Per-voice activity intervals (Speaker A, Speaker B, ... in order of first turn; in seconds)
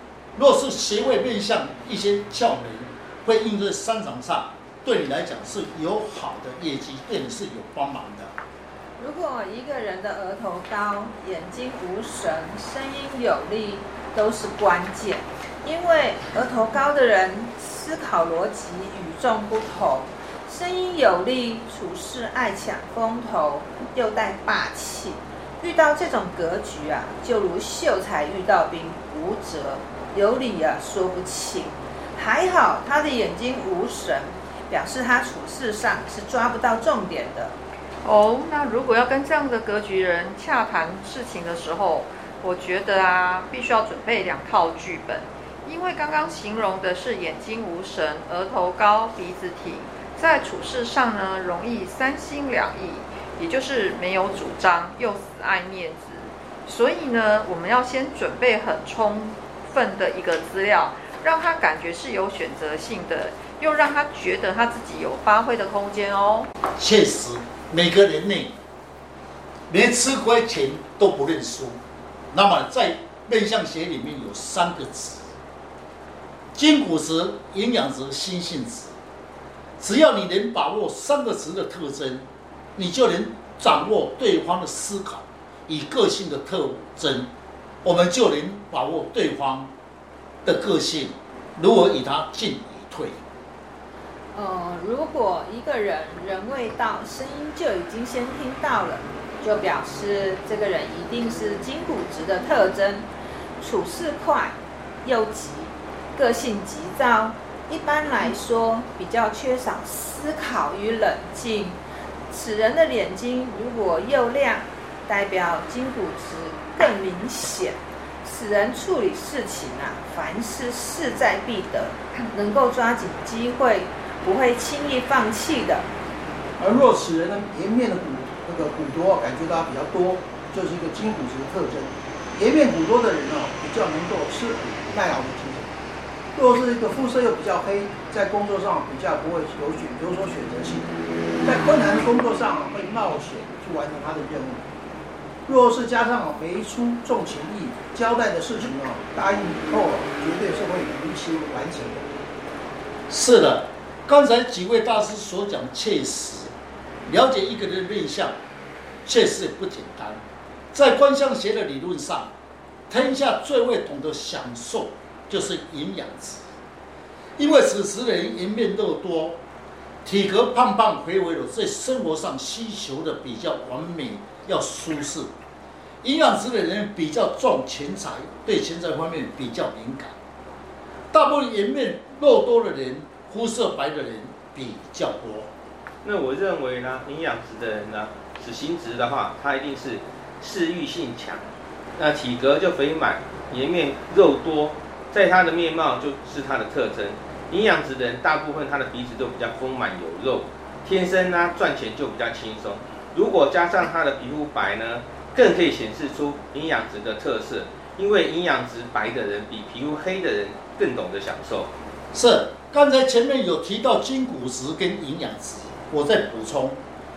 Speaker A: 0.3-8.3, 66.8-68.5, 69.7-71.8, 72.3-75.3, 76.5-79.0, 79.8-87.3, 87.8-89.7, 90.4-93.2, 153.1-156.5, 157.1-158.4, 159.1-162.3, 162.9-166.4, 167.4-169.4, 170.0-175.3, 176.0-180.2, 181.1-185.5, 212.1-216.8
Speaker B: 9.0-37.5, 94.3-103.1, 103.6-111.8, 112.3-125.9
Speaker C: 38.0-66.5
Speaker D: 126.6-135.7, 136.3-144.6, 145.5-152.1
Speaker E: 186.0-211.7